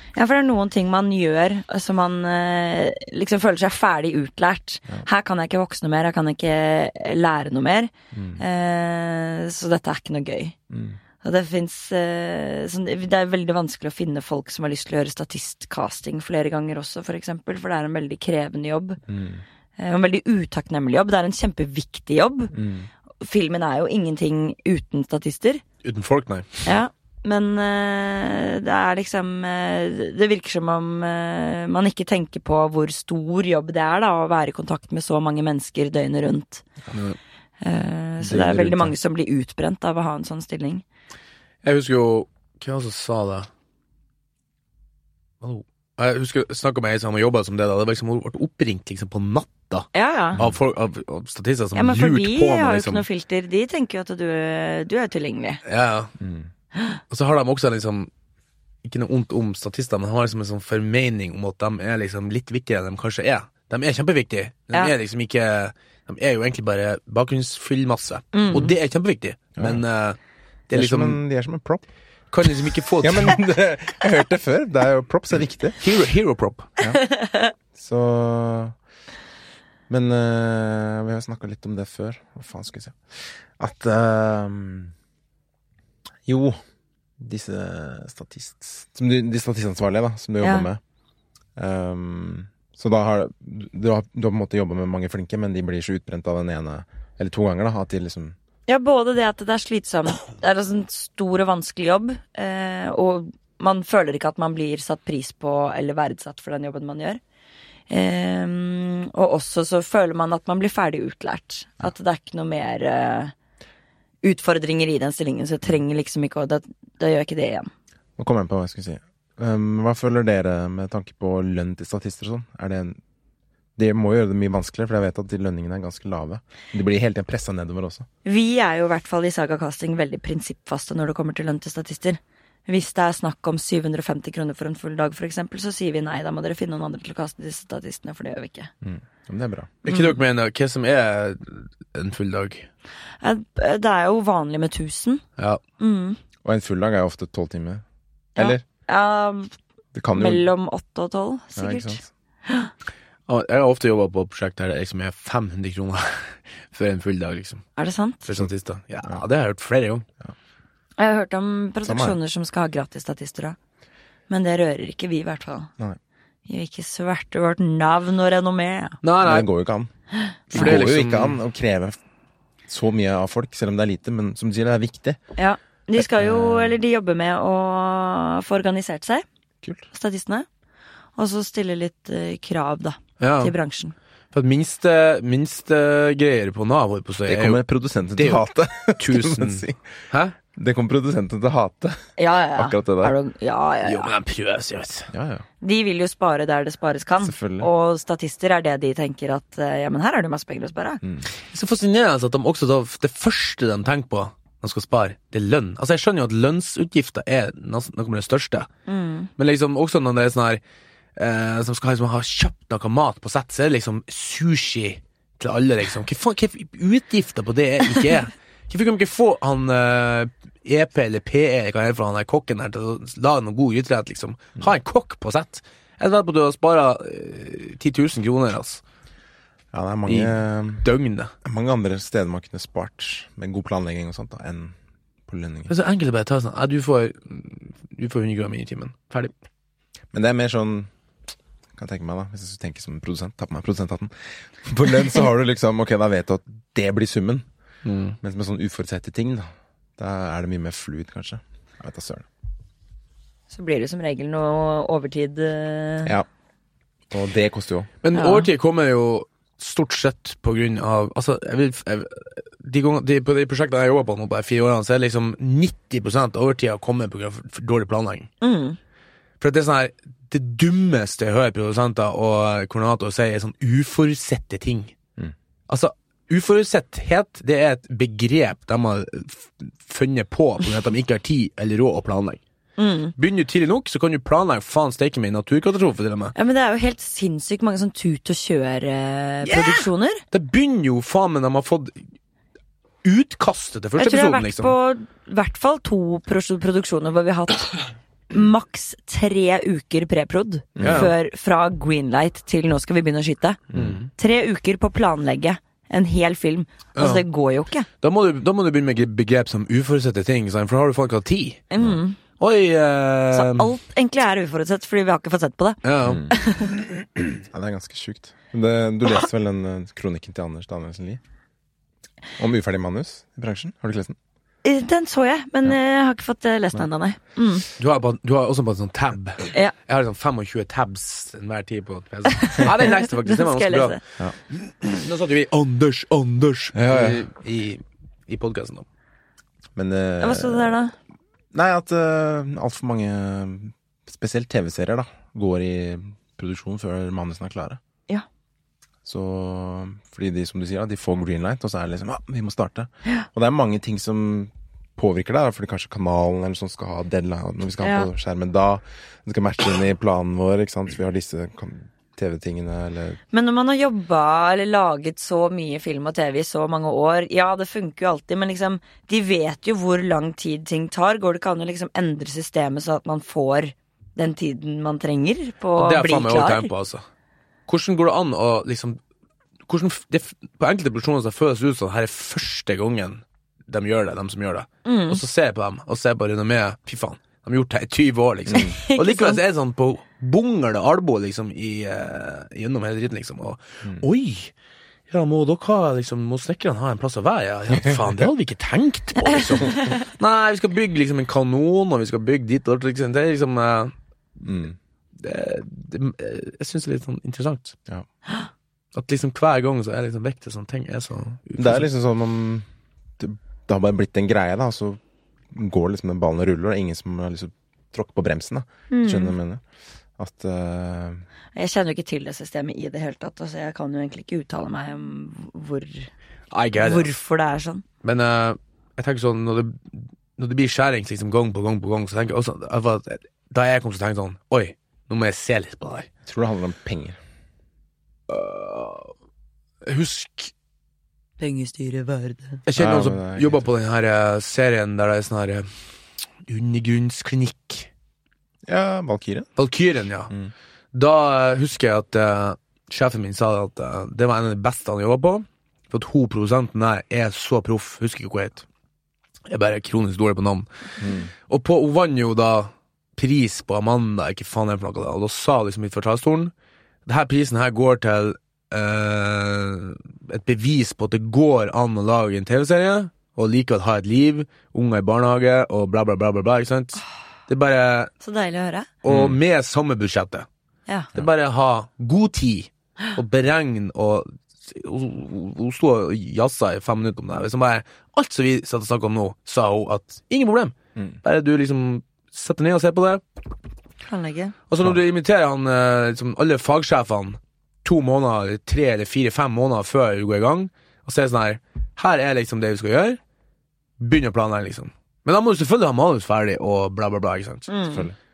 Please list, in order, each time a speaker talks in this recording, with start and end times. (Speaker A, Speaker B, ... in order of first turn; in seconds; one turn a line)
Speaker A: 0.1-10.5
Speaker B: 8.1-8.4
Speaker B: 10.7-11.0
Speaker A: 11.2-19.0
Speaker B: 19.1-19.4
Speaker A: 19.8-22.5
Speaker B: 22.5-22.9
Speaker A: 23.2-25.6
Speaker C: 25.8-26.6
Speaker A: 26.6-36.6
Speaker C: 36.9-37.2
Speaker A: 37.6-40.8
Speaker B: 38.2-38.9
Speaker C: 41.6-43.5
Speaker C: 45.4-53.0
Speaker A: 49.9-50.4
Speaker A: 51.8-55.6
Speaker C: 55.6-56.1
Speaker B: 56.2-56.5
Speaker C: 57.1-58.1
Speaker C: 58.8-70.2
Speaker A: 68.3-68.7
Speaker B: 69.6-69.8
Speaker C: 70.7-71.2
Speaker B: 70.7-71.8
Speaker C: 72.3-73.4
Speaker B: 72.5-75.8
Speaker C: 75.8-76.7
Speaker A: 76.8-77.5
Speaker B: 77.7-78.7
Speaker B: 79.9-84.9
Speaker B: 86.2-86.6
Speaker B: 87.2-90.8
Speaker A: 90.4-90.7
Speaker B: 91.6-98.3
Speaker A: 98.7-107.2
Speaker A: 107.9-113.3
Speaker A: 114.2-117.7
Speaker B: 118.2-123.0
Speaker B: 123.8-128.1
Speaker A: 128.2-138.7
Speaker B: 138.8-139.7
Speaker C: 139.8-142.7
Speaker A: 139.9-140.2
Speaker A: 143.2-145.2
Speaker A: 145.8-146.2
Speaker B: 146.4-147.8
Speaker B: 148.3-148.6
Speaker A: 148.3-149.5
Speaker B: 149.9-150.5
Speaker A: 150.1-152.7
Speaker B: 151.6-152.1
Speaker C: 153.3-157.7
Speaker A: 157.8-158.2
Speaker C: 158.2-160.0
Speaker A: 161.0-163.6
Speaker B: 161.8-162.2
Speaker A: 164.3-165.7
Speaker A: 166.4-169.0
Speaker C: 169.0-169.5
Speaker B: 169.2-169.9
Speaker A: 170.3-170.7
Speaker C: 170.5-171.4
Speaker B: 170.5-172.0
Speaker B: 172.7-175.2
Speaker A: 175.3-179.2
Speaker B: 176.0-176.8
Speaker A: 179.9-180.4
Speaker A: 181.2-183.9
Speaker C: 183.2-183.5
Speaker C: 184.3-187.6
Speaker B: 187.3-189.8
Speaker C: 188.2-188.4
Speaker C: 189.0-190.3
Speaker B: 190.5-192.0
Speaker A: 192.2-194.1
Speaker B: 192.6-193.1
Speaker C: 193.8-195.1
Speaker B: 195.1-195.4
Speaker A: 195.6-201.0
Speaker B: 197.2-197.7
Speaker B: 201.0-201.3
Speaker C: 201.5-208.7
Speaker A: 208.9-209.3
Speaker C: 209.4-210.6
Speaker C: 211.2-228.8
Speaker B: 229.7-230.8
Speaker C: 230.1-231.3
Speaker B: 231.4-234.7
Speaker B: 235.3-235.7
Speaker C: 235.7-239.3
Speaker B: 240.1-240.9
Speaker B: 241.8-247.4
Speaker C: 247.8-248.2
Speaker B: 248.2-252.2
Speaker A: 253.5-256.1
Speaker B: 257.1-257.9
Speaker C: 258.0-268.3
Speaker A: 258.1-258.5
Speaker A: 268.4-268.8
Speaker C: 269.4-274.9
Speaker C: 275.7-282.4
Speaker A: 282.8-283.1
Speaker C: 283.2-286.3
Speaker A: 286.3-290.2
Speaker C: 289.4-292.0
Speaker C: 293.0-294.7
Speaker A: 294.0-303.6
Speaker B: 300.8-301.1
Speaker C: 300.8-301.1
Speaker B: 303.7-304.0
Speaker C: 303.7-304.1
Speaker A: 304.2-307.9
Speaker C: 306.9-307.2
Speaker C: 308.0-311.6
Speaker A: 311.7-312.2
Speaker C: 312.4-313.7
Speaker A: 313.3-316.8
Speaker C: 315.8-316.2
Speaker B: 316.0-316.3
Speaker B: 317.4-321.2
Speaker B: 322.4-324.2
Speaker A: 324.6-327.6
Speaker C: 327.8-334.0
Speaker A: 332.3-334.0
Speaker C: 334.5-338.8
Speaker B: 336.7-337.2
Speaker B: 339.7-340.8
Speaker A: 340.2-340.9
Speaker B: 341.5-347.8
Speaker B: 349.0-363.2
Speaker A: 357.8-358.1
Speaker A: 363.3-376.7
Speaker C: 375.8-377.0
Speaker C: 377.7-379.0
Speaker C: 379.7-394.5
Speaker A: 384.8-385.2
Speaker B: 388.5-388.7
Speaker A: 388.5-389.4
Speaker C: 395.1-403.9
Speaker B: 397.7-398.2
Speaker B: 404.4-404.8
Speaker C: 405.2-407.8
Speaker C: 408.9-411.9
Speaker B: 411.6-412.6
Speaker B: 413.2-415.0
Speaker B: 415.5-419.6
Speaker A: 418.9-419.3
Speaker B: 420.2-421.2
Speaker A: 421.5-426.1
Speaker C: 426.5-427.1
Speaker A: 426.8-427.8
Speaker C: 428.0-436.1
Speaker B: 436.2-437.2
Speaker C: 438.3-439.1
Speaker C: 439.8-440.5
Speaker A: 441.4-442.6
Speaker C: 442.6-445.7
Speaker B: 442.8-443.6
Speaker C: 446.5-447.9
Speaker B: 448.7-449.5
Speaker C: 449.6-450.3
Speaker C: 450.9-458.6
Speaker C: 459.5-460.7
Speaker B: 461.0-461.3
Speaker C: 461.5-466.5
Speaker C: 467.1-478.1
Speaker A: 478.2-478.9
Speaker C: 479.0-480.4
Speaker B: 479.1-479.4
Speaker C: 481.1-493.2
Speaker A: 494.1-494.5
Speaker C: 494.7-503.2
Speaker C: 504.0-507.7
Speaker A: 507.7-508.1
Speaker B: 507.9-508.1